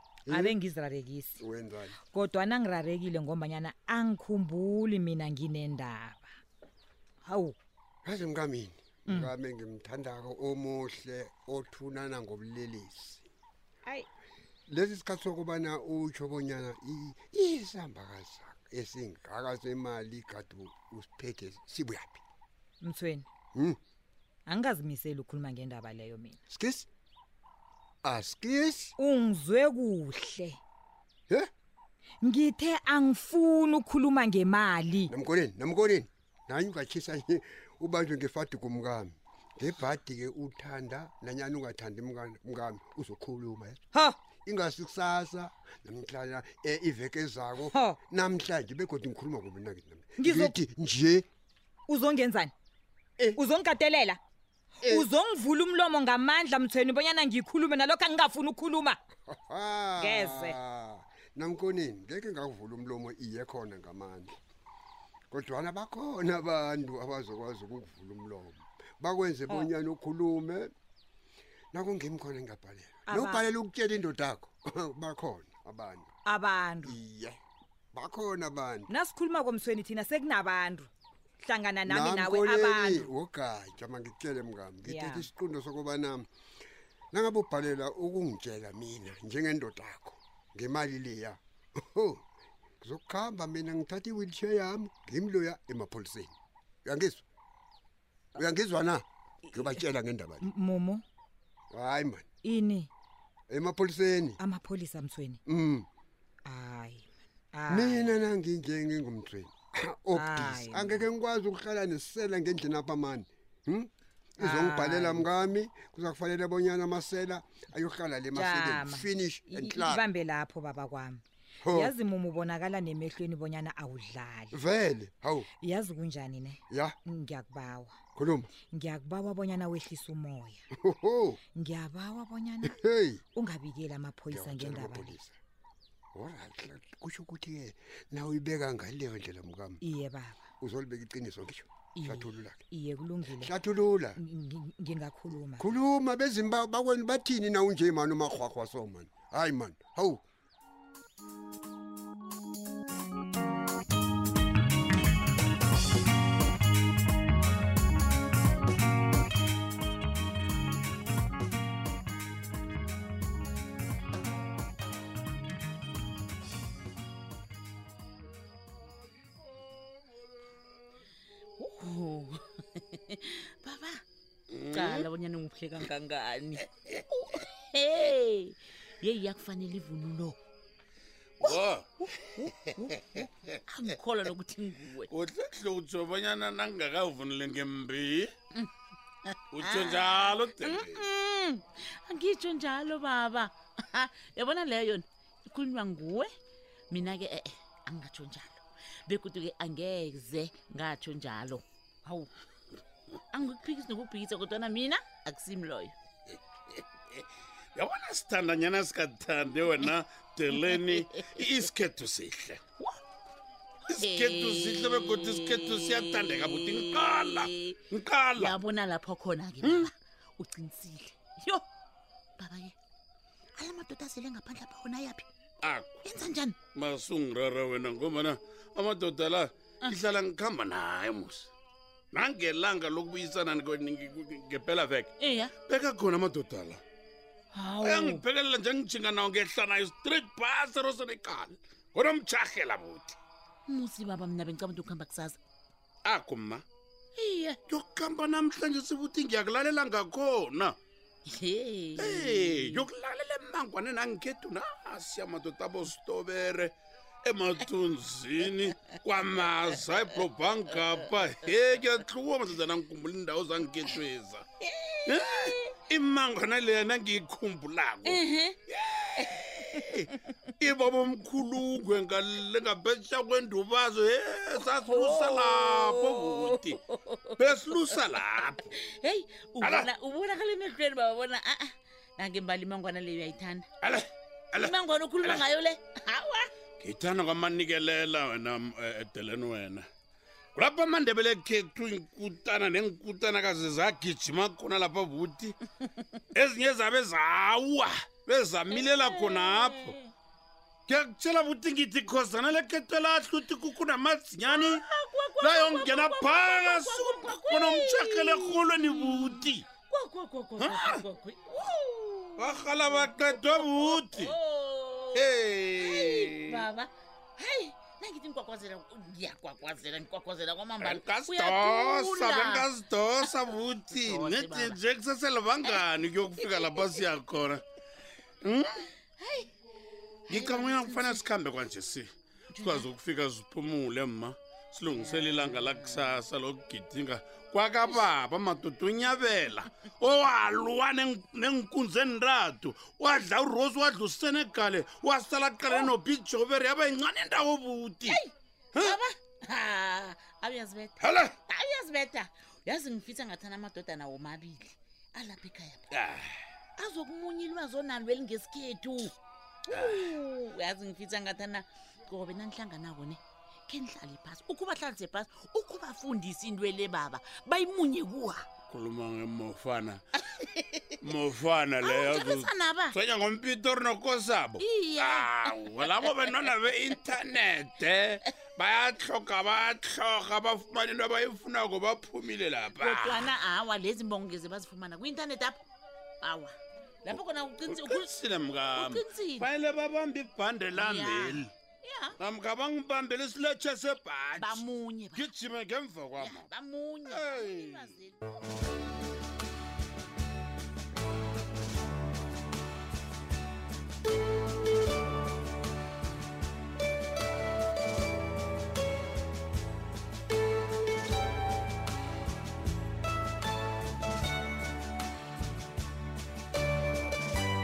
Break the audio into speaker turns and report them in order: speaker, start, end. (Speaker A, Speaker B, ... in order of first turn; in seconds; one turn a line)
Speaker A: 0.3-0.6
Speaker B: 0.3-1.4
Speaker A: 1.4-2.0
Speaker B: 2.0-6.3
Speaker B: 7.2-7.5
Speaker A: 8.0-13.2
Speaker B: 9.1-9.3
Speaker A: 14.7-22.2
Speaker B: 22.8-23.3
Speaker B: 24.5-26.4
Speaker A: 26.5-26.9
Speaker A: 28.0-28.9
Speaker B: 29.0-30.6
Speaker B: 32.2-35.1
Speaker A: 35.1-43.8
Speaker A: 44.4-51.2
Speaker B: 47.6-48.0
Speaker B: 50.2-50.6
Speaker B: 51.9-52.5
Speaker B: 53.3-54.2
Speaker B: 54.8-59.0
Speaker A: 54.8-55.1
Speaker A: 59.3-64.3
Speaker B: 60.0-60.6
Speaker A: 65.3-70.7
Speaker A: 71.7-76.1
Speaker B: 73.1-73.4
Speaker B: 76.2-77.0
Speaker A: 76.8-77.4
Speaker A: 77.9-78.9
Speaker B: 78.9-80.9
Speaker B: 81.4-83.1
Speaker A: 81.8-86.2
Speaker B: 84.8-85.3
Speaker A: 87.1-92.2
Speaker A: 92.8-96.3
Speaker A: 96.8-97.2
Speaker A: 98.3-100.5
Speaker B: 100.4-101.0
Speaker A: 101.7-102.2
Speaker B: 102.4-102.9
Speaker A: 103.5-104.4
Speaker B: 104.4-105.4
Speaker A: 105.5-105.9
Speaker B: 106.5-108.1
Speaker A: 107.7-120.0
Speaker B: 110.1-111.0
Speaker B: 114.4-115.2
Speaker B: 118.3-121.2
Speaker A: 121.6-121.9
Speaker B: 121.7-124.6
Speaker A: 124.5-125.5
Speaker B: 125.6-128.0
Speaker A: 126.7-127.0
Speaker A: 128.1-128.5
Speaker B: 128.7-130.7
Speaker A: 130.8-131.4
Speaker B: 131.5-132.8
Speaker A: 132.6-133.2
Speaker B: 133.3-135.1
Speaker A: 134.3-135.4
Speaker A: 136.1-139.8
Speaker B: 139.8-140.5
Speaker A: 140.6-142.6
Speaker B: 141.9-143.5
Speaker A: 143.3-144.2
Speaker B: 144.1-145.7
Speaker A: 145.6-150.2
Speaker C: 171.6-174.0
Speaker D: 174.5-175.1
Speaker C: 174.7-180.3
Speaker D: 181.4-182.5
Speaker C: 182.3-185.1
Speaker D: 185.1-188.3
Speaker C: 189.3-196.3
Speaker D: 189.5-191.0
Speaker C: 196.9-202.3
Speaker C: 203.3-205.9
Speaker D: 207.7-212.6
Speaker C: 210.5-211.4
Speaker D: 213.9-218.6
Speaker C: 214.0-217.8
Speaker C: 218.3-221.6
Speaker D: 219.6-219.9
Speaker C: 222.4-222.7
Speaker C: 223.6-225.2
Speaker D: 225.6-226.0
Speaker C: 226.0-226.6
Speaker D: 226.7-231.5
Speaker C: 229.8-230.2
Speaker D: 232.1-236.8
Speaker C: 235.2-235.5
Speaker C: 237.5-238.2
Speaker D: 237.8-243.2
Speaker C: 243.7-245.4
Speaker D: 246.0-246.6
Speaker C: 247.2-247.6
Speaker D: 247.7-250.8
Speaker C: 251.3-252.9
Speaker D: 252.0-264.4
Speaker C: 260.7-261.2
Speaker C: 264.6-265.7
Speaker D: 265.1-268.2
Speaker C: 268.0-268.6
Speaker D: 268.7-270.1
Speaker C: 269.1-270.2
Speaker D: 270.6-276.8
Speaker C: 274.6-283.7
Speaker D: 277.4-278.6
Speaker D: 279.6-279.9
Speaker D: 283.8-285.4
Speaker C: 284.5-286.5
Speaker D: 286.8-289.9
Speaker D: 290.5-295.6
Speaker D: 296.3-299.9
Speaker C: 298.7-300.1
Speaker D: 300.9-304.8
Speaker C: 304.5-315.3
Speaker D: 305.4-309.6
Speaker D: 310.6-311.0
Speaker D: 312.4-314.3
Speaker D: 315.1-316.7
Speaker C: 315.8-322.7
Speaker D: 320.8-327.6
Speaker C: 323.2-324.8
Speaker C: 325.6-327.1
Speaker D: 328.4-328.8
Speaker C: 329.2-329.5
Speaker C: 330.3-331.2
Speaker D: 330.3-332.1
Speaker C: 332.5-332.9
Speaker D: 332.6-348.2
Speaker C: 334.9-336.2
Speaker C: 348.0-355.9
Speaker D: 351.0-351.4
Speaker D: 355.9-356.3
Speaker C: 356.8-359.1
Speaker C: 359.7-368.5
Speaker D: 359.7-360.1
Speaker D: 368.7-370.0
Speaker C: 370.4-370.9
Speaker D: 371.0-383.3
Speaker C: 371.8-373.0
Speaker C: 374.6-376.9
Speaker C: 382.8-385.6
Speaker C: 386.2-388.1
Speaker D: 387.7-391.5
Speaker C: 388.7-389.5
Speaker C: 390.7-392.2
Speaker D: 392.2-396.5
Speaker C: 394.4-395.3
Speaker C: 396.2-398.2
Speaker D: 397.1-397.9